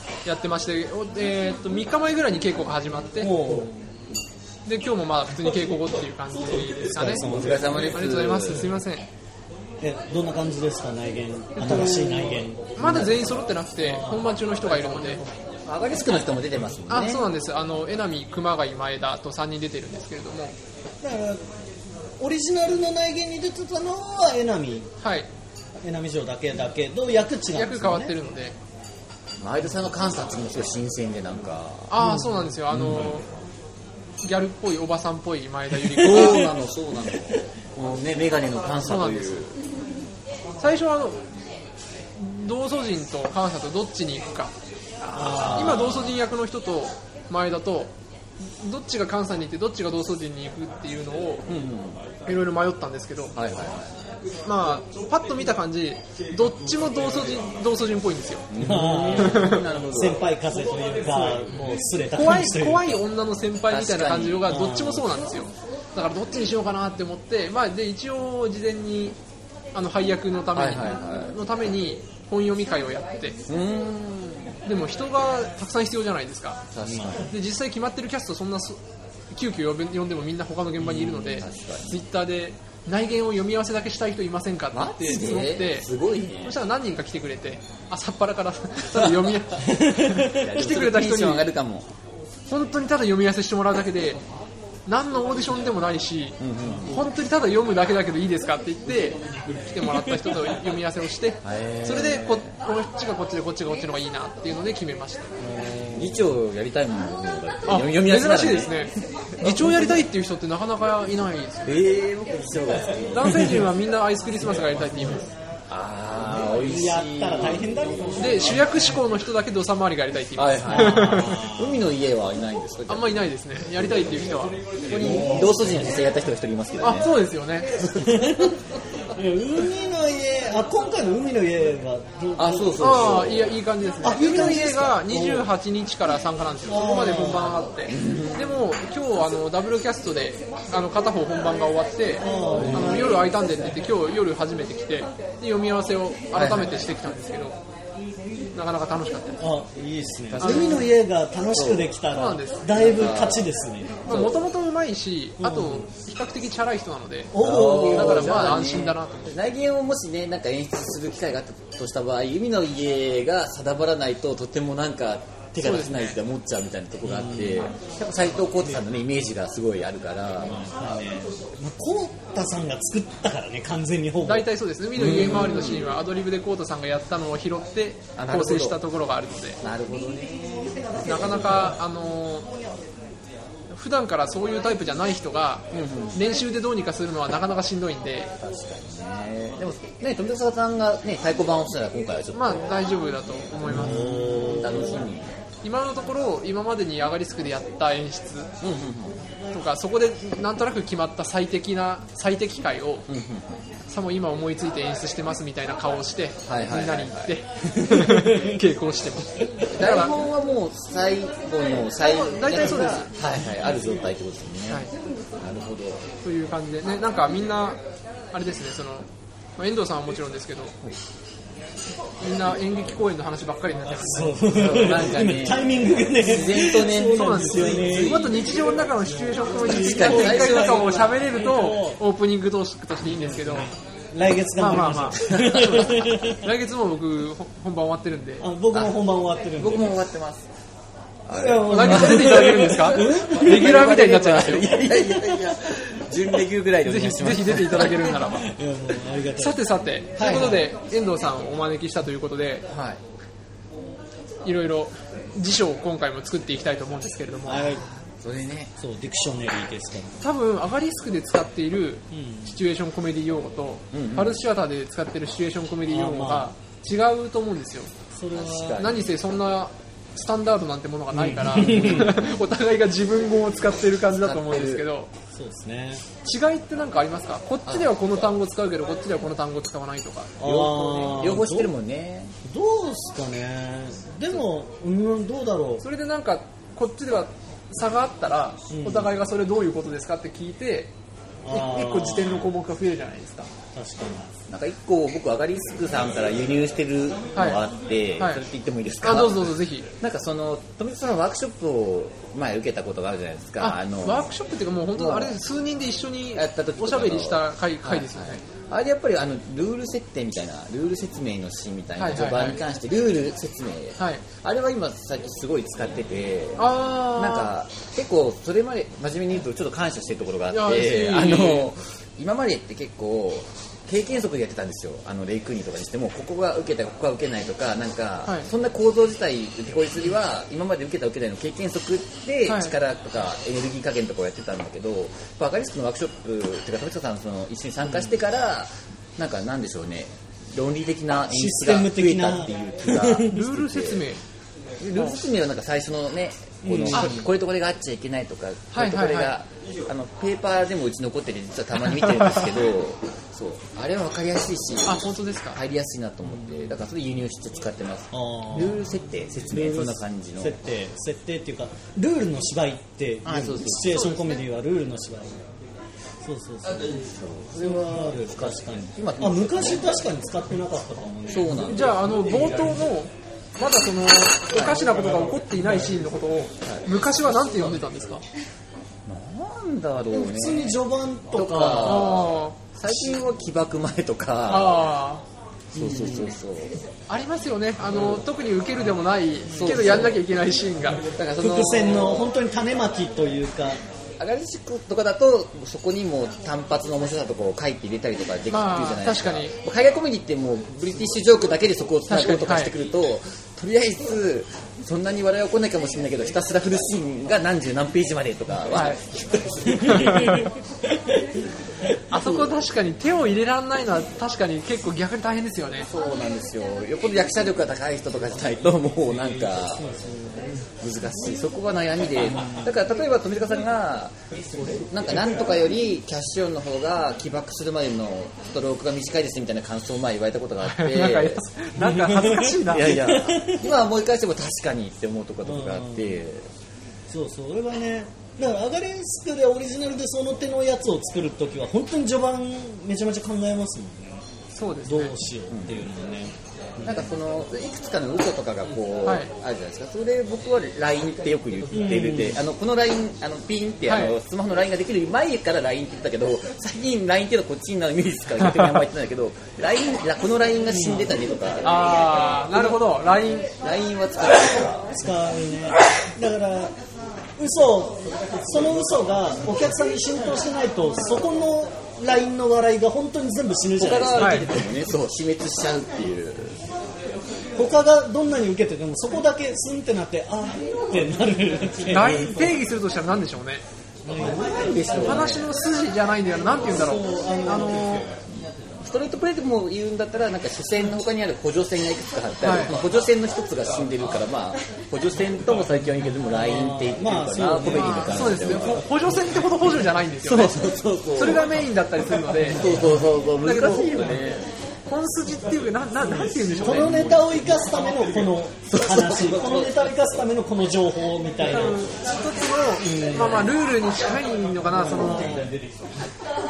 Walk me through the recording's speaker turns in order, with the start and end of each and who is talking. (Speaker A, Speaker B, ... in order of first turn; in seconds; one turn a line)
Speaker A: 0.2-3.3
Speaker B: 3.2-3.9
Speaker A: 4.7-7.3
Speaker B: 7.0-8.0
Speaker C: 7.1-8.7
Speaker A: 7.9-9.1
Speaker B: 9.8-14.3
Speaker A: 11.6-15.2
Speaker C: 11.6-11.9
Speaker C: 15.7-17.2
Speaker A: 16.9-20.5
Speaker B: 21.0-21.4
Speaker B: 22.2-24.9
Speaker A: 25.0-25.3
Speaker B: 25.8-28.1
Speaker A: 27.5-28.6
Speaker C: 29.4-32.0
Speaker A: 31.9-33.2
Speaker B: 32.0-32.5
Speaker C: 32.7-33.1
Speaker A: 34.2-36.5
Speaker C: 35.9-39.5
Speaker B: 36.0-36.5
Speaker A: 38.8-39.4
Speaker A: 40.6-41.2
Speaker A: 42.1-44.5
Speaker C: 45.0-46.2
Speaker B: 45.1-46.0
Speaker A: 45.5-51.4
Speaker C: 51.5-52.0
Speaker A: 52.2-53.3
Speaker C: 53.4-54.0
Speaker A: 54.5-58.5
Speaker C: 58.5-60.2
Speaker B: 58.6-63.0
Speaker A: 59.1-59.6
Speaker A: 62.1-69.2
Speaker C: 63.7-64.5
Speaker B: 64.5-65.0
Speaker A: 69.7-73.3
Speaker C: 70.5-71.3
Speaker C: 73.5-74.5
Speaker A: 74.6-76.6
Speaker C: 76.7-77.3
Speaker B: 76.8-77.2
Speaker A: 77.3-78.8
Speaker A: 79.3-85.9
Speaker C: 80.8-82.0
Speaker C: 84.7-86.6
Speaker A: 86.4-91.5
Speaker B: 89.7-90.4
Speaker C: 90.2-91.9
Speaker A: 92.5-94.2
Speaker A: 94.9-105.3
Speaker C: 96.4-97.0
Speaker C: 101.4-102.5
Speaker B: 105.4-106.2
Speaker C: 105.9-108.9
Speaker A: 107.7-111.8
Speaker C: 109.4-109.9
Speaker C: 111.6-113.5
Speaker A: 113.1-115.3
Speaker B: 113.3-113.6
Speaker C: 115.7-117.7
Speaker B: 116.6-118.6
Speaker A: 118.2-121.4
Speaker C: 120.4-123.2
Speaker B: 120.7-121.8
Speaker A: 122.9-125.2
Speaker C: 124.9-127.1
Speaker B: 124.9-125.5
Speaker A: 126.8-127.7
Speaker C: 127.8-128.5
Speaker B: 128.0-128.6
Speaker B: 129.1-133.0
Speaker C: 132.3-133.5
Speaker A: 132.8-147.6
Speaker B: 134.0-135.5
Speaker B: 136.7-137.6
Speaker C: 137.9-138.5
Speaker B: 142.2-143.3
Speaker C: 142.5-143.2
Speaker C: 146.3-146.9
Speaker A: 148.5-149.4
Speaker B: 149.4-154.1
Speaker C: 150.3-150.9
Speaker A: 150.4-150.8
Speaker C: 151.5-151.9
Speaker A: 152.1-152.6
Speaker C: 152.7-153.5
Speaker C: 154.1-154.4
Speaker A: 154.1-159.3
Speaker B: 155.4-155.8
Speaker B: 157.3-158.8
Speaker C: 157.4-170.7
Speaker A: 165.6-166.2
Speaker B: 167.0-167.7
Speaker B: 170.6-174.5
Speaker A: 174.2-179.6
Speaker C: 174.9-175.9
Speaker C: 178.2-178.8
Speaker C: 179.6-181.7
Speaker A: 181.0-182.5
Speaker A: 183.7-188.3
Speaker C: 185.7-186.2
Speaker C: 188.4-192.7
Speaker A: 192.3-194.6
Speaker C: 193.7-195.3
Speaker B: 193.7-195.0
Speaker A: 195.6-198.5
Speaker C: 198.6-199.2
Speaker A: 199.5-203.0
Speaker C: 203.1-203.6
Speaker A: 203.9-210.1
Speaker C: 206.4-207.3
Speaker B: 207.8-208.6
Speaker C: 209.7-214.8
Speaker A: 212.0-213.1
Speaker C: 215.4-216.0
Speaker A: 216.2-217.8
Speaker A: 218.3-220.7
Speaker A: 222.2-224.4
Speaker B: 224.1-228.3
Speaker C: 224.5-228.4
Speaker A: 227.1-233.7
Speaker B: 229.6-232.0
Speaker C: 229.6-231.0
Speaker B: 234.1-236.4
Speaker A: 234.6-238.4
Speaker C: 235.2-235.7
Speaker B: 238.4-239.9
Speaker C: 238.7-239.0
Speaker C: 239.6-240.5
Speaker C: 241.3-248.1
Speaker B: 241.3-243.8
Speaker A: 241.7-244.8
Speaker B: 244.9-245.3
Speaker A: 246.8-248.5
Speaker B: 248.3-249.6
Speaker A: 249.4-252.6
Speaker B: 250.2-250.6
Speaker C: 250.2-250.6
Speaker C: 252.7-253.0
Speaker A: 254.4-257.8
Speaker B: 257.4-257.8
Speaker C: 257.6-258.7
Speaker B: 258.8-260.2
Speaker A: 260.2-267.9
Speaker B: 262.1-262.6
Speaker C: 263.9-264.4
Speaker B: 265.9-266.5
Speaker B: 268.1-268.8
Speaker C: 268.3-269.1
Speaker A: 268.8-275.1
Speaker B: 271.1-272.2
Speaker C: 274.1-274.8
Speaker B: 275.3-276.0
Speaker A: 276.2-281.2
Speaker C: 277.6-278.3
Speaker B: 280.4-281.7
Speaker C: 280.4-282.3
Speaker B: 282.4-285.8
Speaker A: 285.8-290.9
Speaker B: 288.7-289.1
Speaker B: 291.4-292.4
Speaker A: 291.5-293.5
Speaker B: 293.7-294.3
Speaker C: 294.5-304.2
Speaker A: 297.3-297.6
Speaker A: 299.0-299.9
Speaker A: 303.6-308.4
Speaker C: 304.9-305.4
Speaker C: 306.3-344.1
Speaker A: 312.0-312.6
Speaker A: 314.0-314.2
Speaker A: 316.6-317.5
Speaker A: 320.5-321.7
Speaker A: 332.5-332.7
Speaker B: 341.3-343.4
Speaker A: 343.3-344.2
Speaker C: 344.8-360.6
Speaker B: 346.6-347.3
Speaker A: 346.9-347.2
Speaker A: 348.7-349.3
Speaker A: 354.8-355.6
Speaker B: 358.1-358.8
Speaker B: 359.5-365.4
Speaker C: 363.2-364.0
Speaker A: 363.9-364.4
Speaker B: 366.2-371.7
Speaker C: 367.1-370.0
Speaker C: 371.3-372.1
Speaker A: 371.7-378.2
Speaker C: 374.5-374.9
Speaker C: 379.1-380.8
Speaker B: 380.1-382.2
Speaker C: 381.3-384.9
Speaker A: 381.8-382.6
Speaker A: 384.5-385.2
Speaker B: 385.7-386.3
Speaker C: 385.7-386.8
Speaker A: 387.1-391.0
Speaker C: 387.9-388.2
Speaker C: 389.5-390.2
Speaker B: 389.5-390.1
Speaker C: 391.1-392.3
Speaker B: 391.4-393.8
Speaker C: 394.2-410.4
Speaker A: 398.5-399.5
Speaker A: 402.1-402.7
Speaker B: 409.7-411.2
Speaker A: 409.8-410.5
Speaker A: 412.1-415.9
Speaker C: 412.1-412.5
Speaker C: 415.8-419.9
Speaker B: 419.8-420.4
Speaker C: 420.8-424.1
Speaker B: 422.3-422.7
Speaker C: 424.7-431.4
Speaker A: 430.6-433.0
Speaker B: 431.8-433.6
Speaker C: 432.6-436.5
Speaker B: 435.4-436.1
Speaker B: 437.1-444.2
Speaker A: 444.5-445.1
Speaker B: 444.8-447.1
Speaker C: 445.5-445.9
Speaker C: 446.8-461.9
Speaker A: 449.0-449.3
Speaker B: 451.7-452.4
Speaker A: 453.9-454.1
Speaker B: 460.7-461.1
Speaker A: 461.6-463.5
Speaker C: 463.6-464.9
Speaker B: 464.9-466.7
Speaker B: 467.4-474.6
Speaker C: 473.8-476.6
Speaker A: 474.2-474.4
Speaker B: 477.6-482.5
Speaker A: 481.9-483.6
Speaker B: 484.1-485.2
Speaker C: 484.1-485.5
Speaker A: 485.0-488.1
Speaker B: 486.6-487.9
Speaker C: 488.8-498.8
Speaker A: 492.4-492.7
Speaker B: 496.3-498.3
Speaker A: 497.7-502.6
Speaker C: 500.2-501.6
Speaker C: 502.4-504.4
Speaker A: 503.4-504.1
Speaker A: 504.9-507.2
Speaker B: 506.6-511.9
Speaker C: 506.6-507.2
Speaker C: 508.7-509.9
Speaker A: 511.4-515.5
Speaker B: 512.8-513.5
Speaker B: 514.7-515.5